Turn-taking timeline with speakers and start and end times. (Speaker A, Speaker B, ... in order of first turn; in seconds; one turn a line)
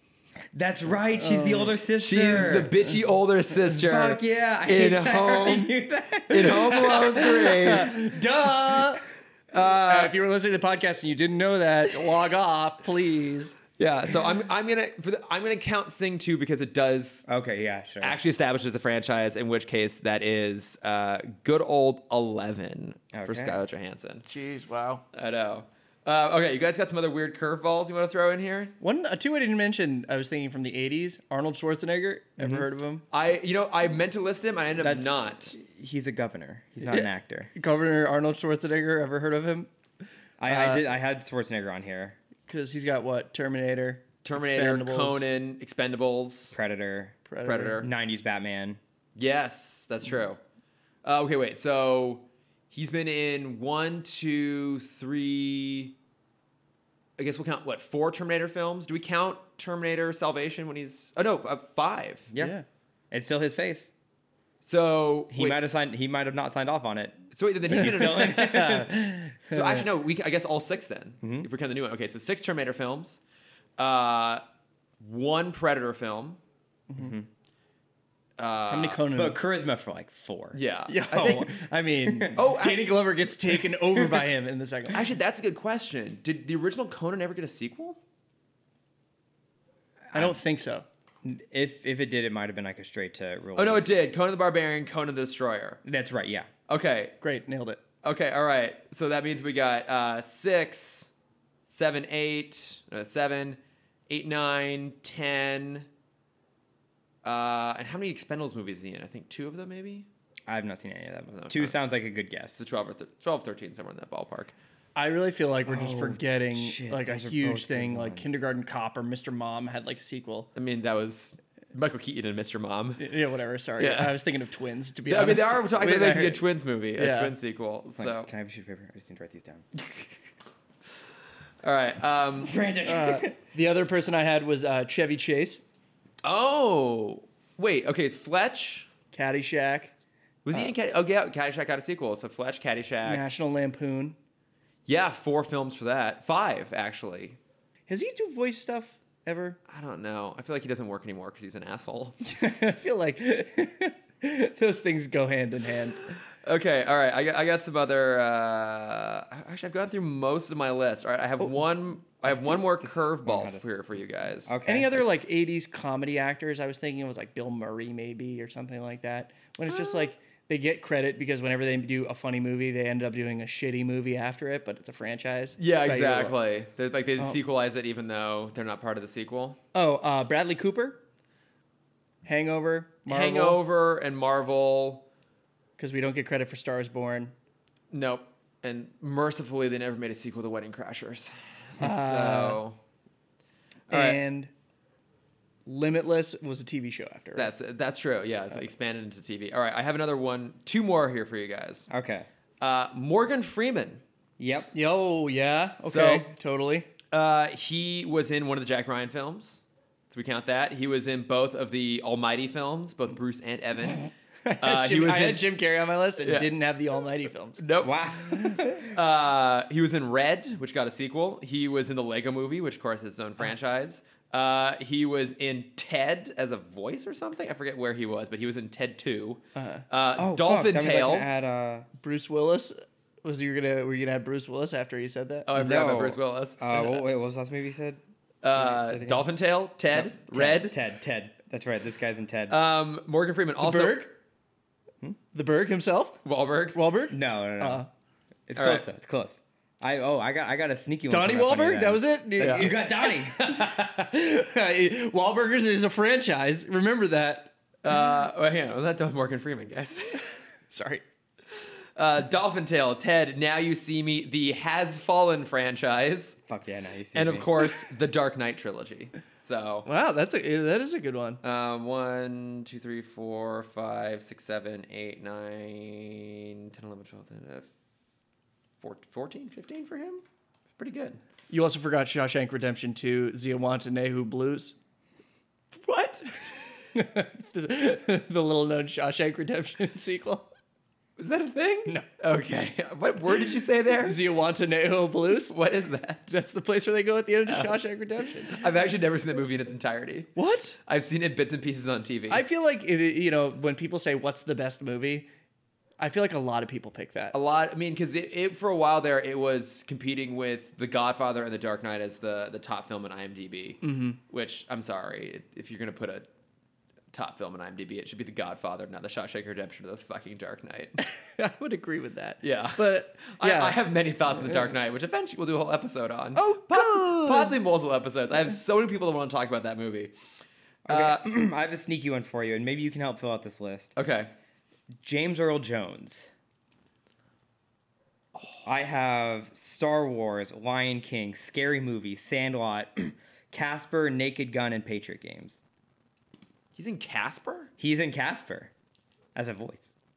Speaker A: 0.5-2.8
Speaker B: 1.1-1.7
Speaker C: 2.0-5.7
Speaker A: 3.8-7.3
Speaker C: 6.3-8.0
Speaker B: 6.8-9.1
Speaker C: 9.5-10.1
Speaker B: 9.8-13.6
Speaker C: 13.8-17.3
Speaker A: 17.3-18.2
Speaker C: 18.0-24.3
Speaker A: 23.1-23.6
Speaker B: 24.3-25.0
Speaker C: 25.1-28.7
Speaker B: 28.8-33.0
Speaker A: 32.4-32.6
Speaker C: 33.1-35.6
Speaker A: 34.8-37.5
Speaker B: 36.8-39.7
Speaker A: 40.4-42.2
Speaker B: 40.5-40.8
Speaker B: 42.5-45.2
Speaker C: 44.2-46.6
Speaker A: 46.5-47.2
Speaker B: 47.3-47.8
Speaker C: 47.4-47.9
Speaker A: 47.8-48.8
Speaker C: 49.1-50.4
Speaker C: 51.0-56.0
Speaker C: 57.2-62.3
Speaker B: 62.4-62.6
Speaker A: 63.1-63.9
Speaker C: 64.6-65.6
Speaker A: 65.3-69.3
Speaker C: 67.3-68.7
Speaker B: 67.8-69.9
Speaker C: 69.5-73.2
Speaker A: 71.2-71.5
Speaker C: 73.8-74.4
Speaker C: 75.0-76.4
Speaker B: 76.9-77.2
Speaker A: 77.0-77.3
Speaker C: 78.4-79.0
Speaker B: 78.7-79.4
Speaker A: 79.1-80.6
Speaker C: 80.5-81.5
Speaker B: 80.9-85.1
Speaker A: 81.1-81.5
Speaker A: 82.0-82.5
Speaker C: 82.3-83.2
Speaker A: 83.8-84.2
Speaker C: 84.9-88.0
Speaker A: 90.1-90.4
Speaker B: 90.1-90.9
Speaker A: 91.2-94.0
Speaker C: 93.6-95.8
Speaker A: 95.8-96.5
Speaker C: 96.7-97.2
Speaker B: 97.2-97.8
Speaker C: 98.0-101.1
Speaker C: 101.7-105.9
Speaker C: 107.2-110.1
Speaker A: 110.5-112.6
Speaker C: 111.3-111.8
Speaker C: 112.5-114.5
Speaker B: 115.0-120.5
Speaker A: 115.7-118.4
Speaker C: 120.5-123.1
Speaker B: 123.0-126.4
Speaker C: 123.8-124.2
Speaker C: 125.1-128.3
Speaker B: 127.0-127.3
Speaker A: 128.0-129.7
Speaker C: 129.8-130.1
Speaker C: 131.6-132.5
Speaker A: 132.4-133.3
Speaker B: 132.8-135.6
Speaker C: 136.2-138.9
Speaker B: 139.1-139.9
Speaker C: 140.4-143.2
Speaker B: 143.1-144.2
Speaker C: 144.9-147.4
Speaker B: 147.9-149.6
Speaker C: 149.7-152.2
Speaker B: 152.3-156.1
Speaker C: 156.4-164.6
Speaker A: 162.8-163.9
Speaker A: 164.4-165.0
Speaker B: 164.7-176.4
Speaker C: 169.7-170.1
Speaker C: 175.6-179.6
Speaker B: 179.7-181.0
Speaker B: 182.2-183.6
Speaker C: 183.1-185.0
Speaker B: 185.8-187.3
Speaker C: 187.9-192.8
Speaker B: 191.8-192.6
Speaker C: 193.9-194.2
Speaker B: 193.9-194.5
Speaker B: 195.7-197.5
Speaker C: 197.4-201.9
Speaker A: 201.9-202.3
Speaker C: 202.6-204.0
Speaker A: 204.4-204.7
Speaker B: 204.7-206.9
Speaker C: 205.8-206.3
Speaker C: 207.1-214.1
Speaker B: 214.1-217.6
Speaker C: 214.6-215.5
Speaker C: 216.2-216.5
Speaker C: 217.6-231.3
Speaker A: 217.8-218.9
Speaker B: 229.6-229.8
Speaker A: 230.2-231.9
Speaker B: 232.0-235.5
Speaker C: 235.5-237.0
Speaker A: 235.6-238.0
Speaker C: 238.4-240.8
Speaker A: 238.5-239.2
Speaker A: 239.9-242.6
Speaker C: 242.5-244.1
Speaker B: 243.6-244.1
Speaker B: 245.3-246.2
Speaker C: 246.2-246.8
Speaker B: 246.7-247.9
Speaker A: 247.1-247.9
Speaker A: 248.5-253.8
Speaker C: 248.6-248.8
Speaker B: 251.1-257.6
Speaker C: 252.4-252.7
Speaker C: 257.8-260.4
Speaker B: 260.7-261.0
Speaker C: 261.5-266.4
Speaker A: 266.5-267.5
Speaker C: 267.1-269.9
Speaker B: 269.9-271.4
Speaker C: 271.4-277.7
Speaker C: 278.8-280.2
Speaker C: 280.8-281.2
Speaker B: 281.5-284.7
Speaker C: 285.8-286.7
Speaker B: 286.9-290.5
Speaker C: 291.2-294.2
Speaker B: 294.0-295.6
Speaker C: 295.5-296.3
Speaker B: 296.3-298.6
Speaker C: 297.5-297.8
Speaker C: 298.4-300.3
Speaker B: 300.4-300.8
Speaker C: 300.9-302.4
Speaker B: 302.3-305.3
Speaker B: 306.0-307.3
Speaker C: 307.3-316.2
Speaker B: 313.8-314.2
Speaker C: 317.1-321.0
Speaker B: 321.0-323.8
Speaker C: 322.4-330.1
Speaker B: 326.3-327.6
Speaker A: 330.9-333.9
Speaker C: 330.9-331.2
Speaker C: 333.9-334.3
Speaker A: 335.0-336.3
Speaker A: 338.6-345.6
Speaker C: 346.7-347.7
Speaker A: 347.8-348.7
Speaker A: 349.3-349.9